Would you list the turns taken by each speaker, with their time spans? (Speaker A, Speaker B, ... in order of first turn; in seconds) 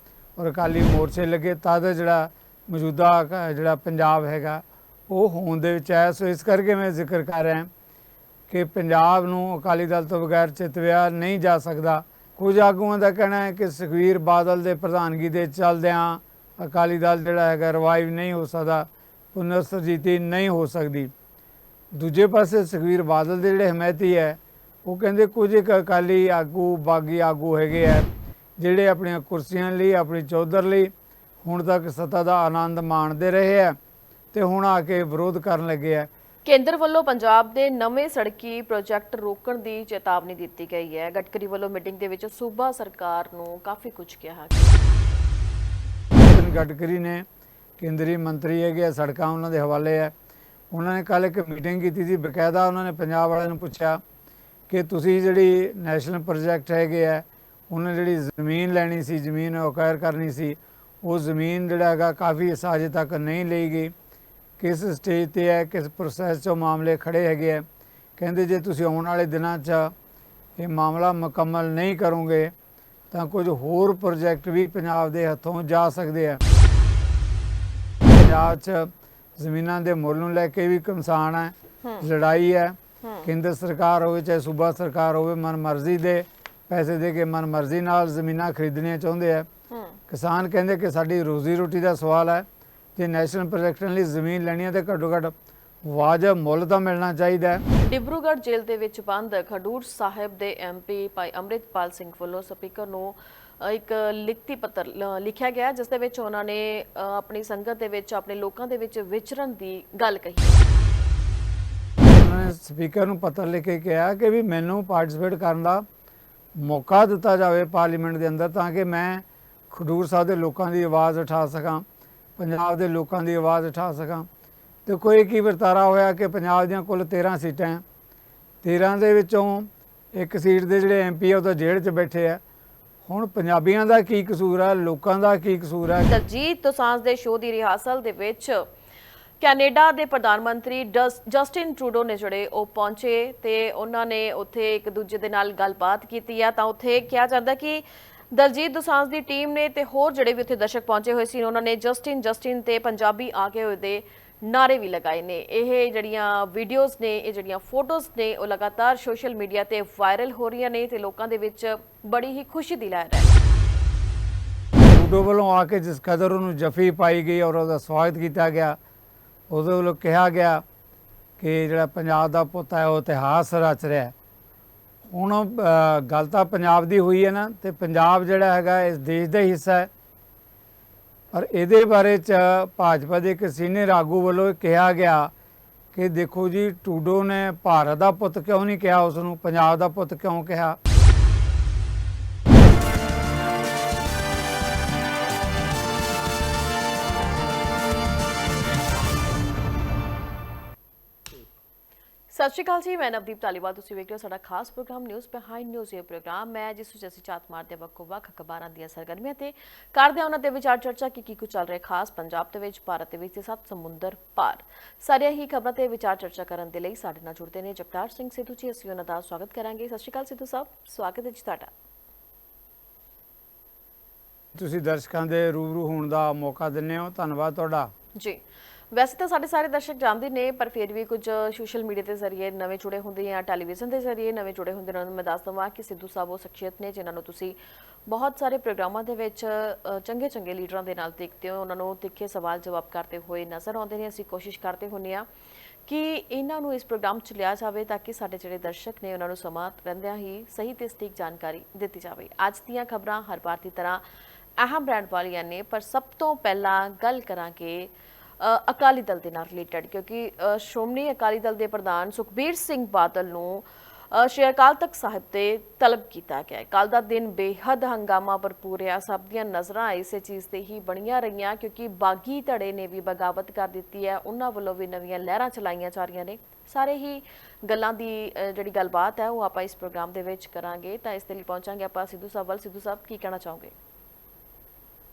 Speaker A: 0.4-7.7, 8.5-21.1, 21.9-28.1, 28.6-33.8, 34.3-36.1, 46.1-47.2, 47.8-50.1, 50.7-54.0, 54.7-63.9, 64.6-67.6, 68.2-69.9, 70.6-72.5, 73.1-76.4, 78.0-89.5, 90.1-92.4, 93.0-95.3, 95.8-97.6, 112.0-115.8, 116.5-121.8, 122.4-124.3, 124.8-127.8, 128.6-132.4, 133.0-136.1, 164.8-168.8, 169.5-170.6, 171.4-174.1, 175.1-179.9, 181.3-185.3, 185.9-190.8, 224.5-227.9
Speaker B: 36.4-44.8, 83.0-83.3, 89.7-90.0, 97.8-110.6, 136.0-138.7, 139.4-163.3, 202.3-221.7, 228.2-245.3, 245.8-254.0, 254.6-283.7